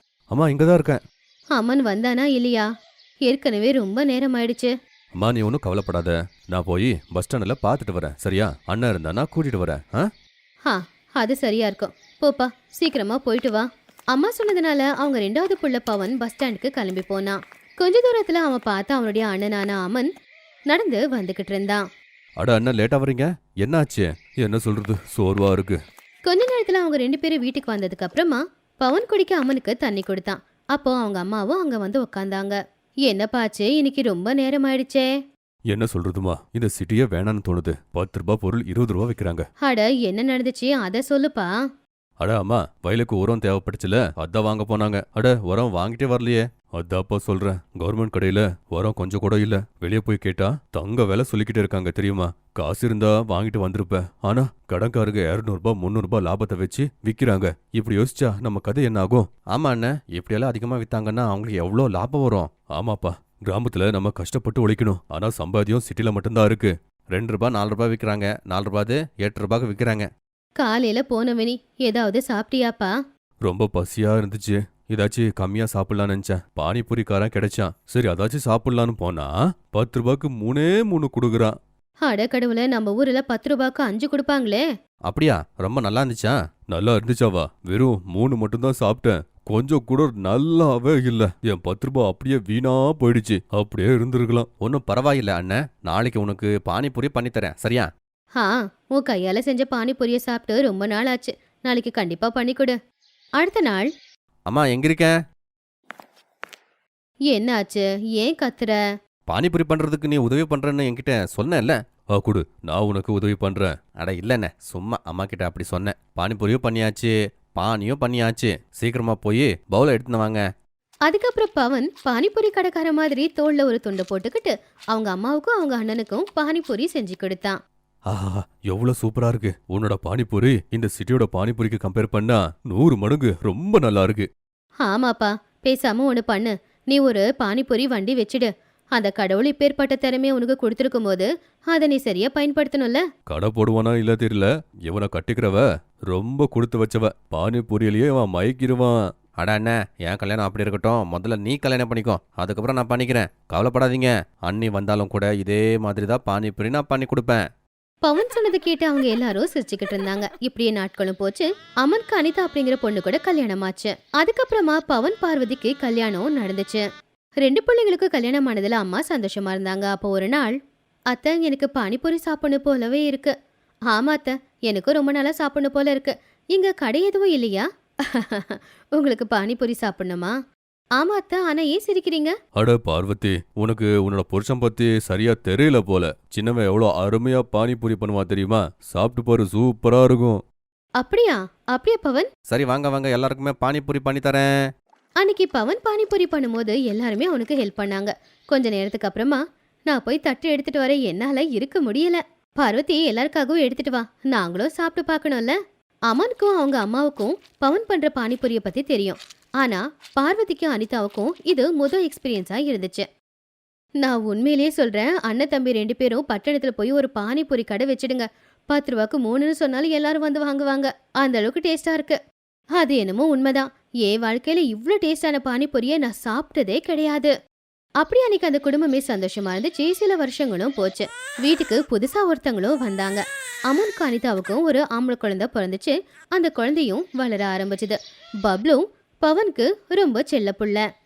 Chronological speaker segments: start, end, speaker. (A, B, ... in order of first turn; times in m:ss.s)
0:00.3-0:01.0 A
0:01.5-0:02.6 B
0:03.2-0:04.7 B
0:05.2-0:10.1 A
0:10.6-0:20.1 B
0:20.7-0:21.8 B
0:22.4-0:25.8 A
0:26.2-0:35.1 B
0:35.7-0:39.5 A
0:39.6-0:41.5 B
0:42.2-1:10.1 A
1:10.6-1:12.9 B
1:13.4-1:21.5 A
1:22.0-1:24.6 B
1:25.0-1:37.9 A
1:38.4-1:42.8 B
1:43.4-1:43.9 B
1:44.5-1:45.2 A
1:47.3-1:48.8 B
1:49.3-2:00.4 A
2:01.1-2:07.6 B
2:08.1-2:14.3 A
2:14.8-2:23.0 B
2:23.3-2:37.4 A
2:38.0-2:46.8 B
2:47.4-2:50.5 B
2:51.1-2:53.3 B
2:53.9-3:00.3 B
3:01.0-3:02.3 B
3:02.6-3:10.4 A
3:11.0-3:12.3 B
3:12.5-3:14.5 A
3:15.2-3:25.6 B
3:26.1-3:33.0 B
3:34.0-3:42.2 B
3:42.8-3:47.3 B
3:48.0-4:00.8 B